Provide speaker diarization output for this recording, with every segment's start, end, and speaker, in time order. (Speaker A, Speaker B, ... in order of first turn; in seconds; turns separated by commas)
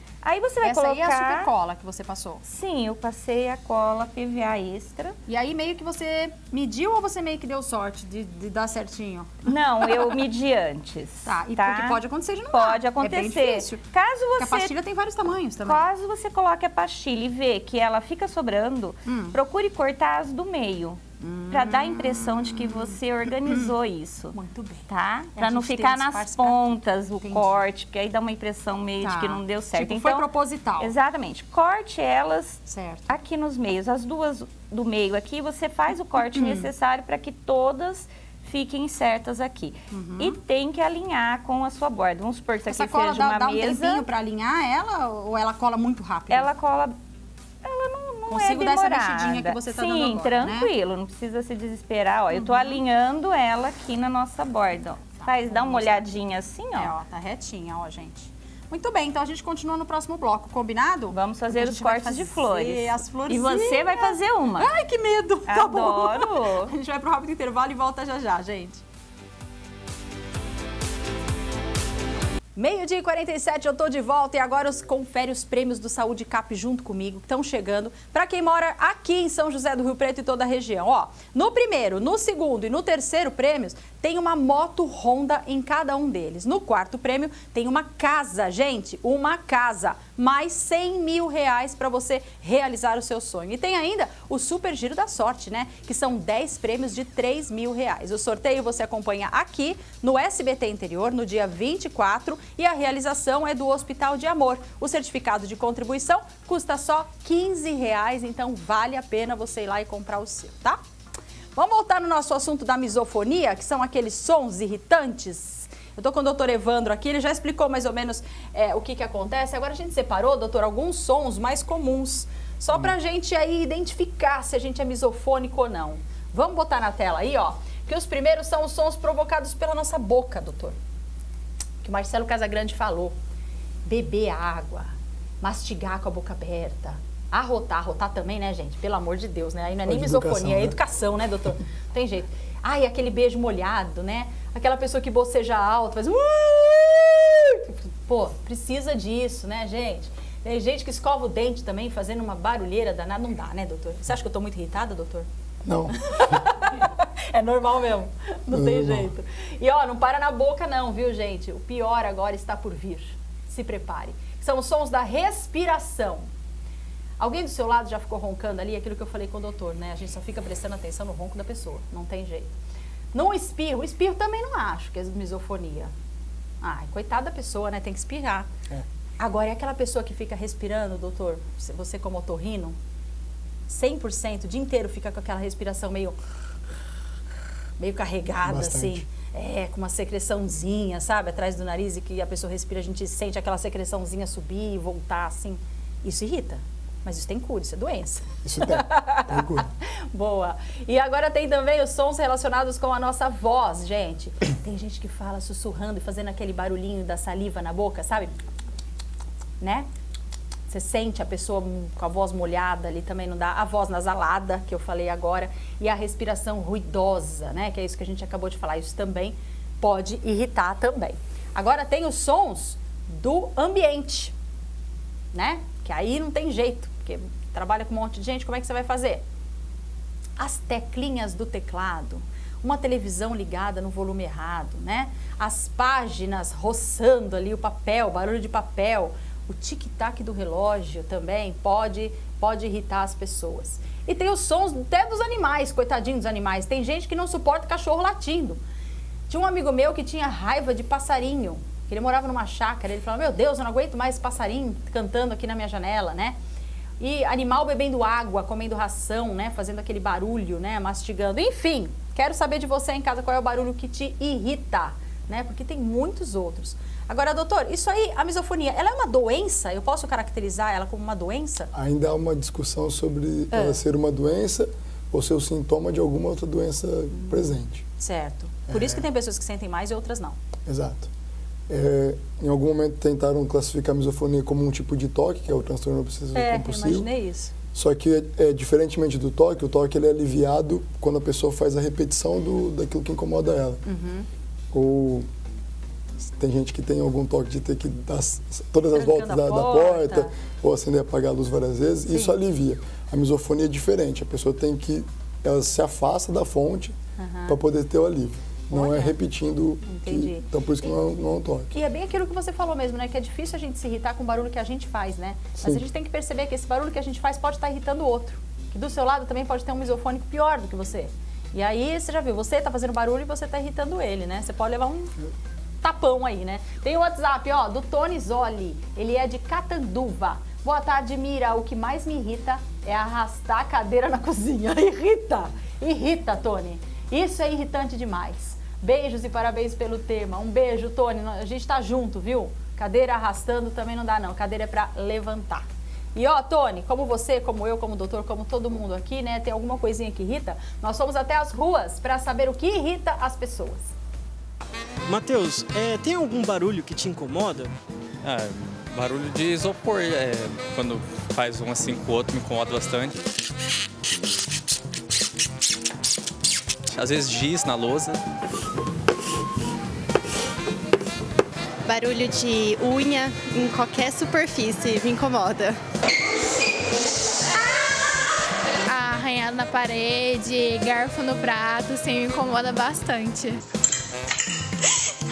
Speaker A: 0.2-1.5, Speaker B: 0.6-2.4, Speaker A: 2.5-5.2, Speaker B: 5.3-10.2, Speaker A: 9.4-12.0, Speaker B: 11.2-13.8, Speaker A: 12.5-14.7, Speaker B: 14.4-15.9, Speaker A: 15.7-24.4, Speaker B: 19.1-19.4, Speaker B: 21.2-22.8, Speaker B: 23.4-23.7, Speaker B: 24.3-27.6, Speaker A: 24.9-44.1, Speaker B: 29.0-30.9, Speaker B: 32.7-33.1, Speaker B: 36.3-36.7, Speaker B: 39.9-40.4, Speaker B: 42.6-46.5, Speaker A: 46.3-46.9, Speaker A: 47.6-57.0, Speaker B: 48.3-50.7, Speaker B: 52.3-52.8, Speaker B: 55.2-56.1, Speaker B: 56.7-68.8, Speaker A: 61.1-64.7, Speaker A: 65.5-66.7, Speaker B: 72.5-110.8, Speaker B: 111.5-130.8, Speaker B: 131.8-133.1, Speaker B: 133.8-155.3, Speaker C: 139.9-140.8, Speaker C: 155.6-156.4, Speaker B: 155.9-166.3, Speaker C: 158.5-159.1, Speaker B: 167.2-172.5, Speaker B: 173.1-175.9, Speaker B: 176.6-178.5, Speaker B: 179.2-182.8, Speaker B: 183.7-186.2, Speaker B: 187.8-208.3, Speaker C: 188.4-189.0, Speaker C: 198.4-199.7, Speaker B: 209.6-209.9, Speaker B: 210.7-224.3, Speaker B: 225.3-229.2, Speaker B: 230.4-248.6, Speaker B: 249.3-256.4, Speaker B: 257.0-271.7, Speaker C: 271.7-277.8, Speaker B: 273.5-273.8, Speaker B: 277.1-277.4, Speaker B: 278.0-280.4, Speaker C: 278.7-279.0, Speaker C: 280.6-281.1, Speaker C: 281.7-287.1, Speaker B: 286.3-287.5, Speaker C: 287.7-293.8, Speaker B: 293.9-294.3, Speaker C: 294.7-295.3, Speaker C: 296.2-306.9, Speaker B: 298.9-300.3, Speaker B: 302.1-302.3, Speaker B: 307.2-307.6, Speaker C: 307.5-311.7, Speaker B: 308.7-309.1, Speaker B: 309.9-310.4, Speaker B: 311.7-325.1, Speaker B: 325.8-353.9, Speaker D: 355.1-357.7, Speaker E: 358.2-363.2, Speaker E: 366.9-368.2, Speaker F: 371.8-375.8, Speaker G: 378.9-383.6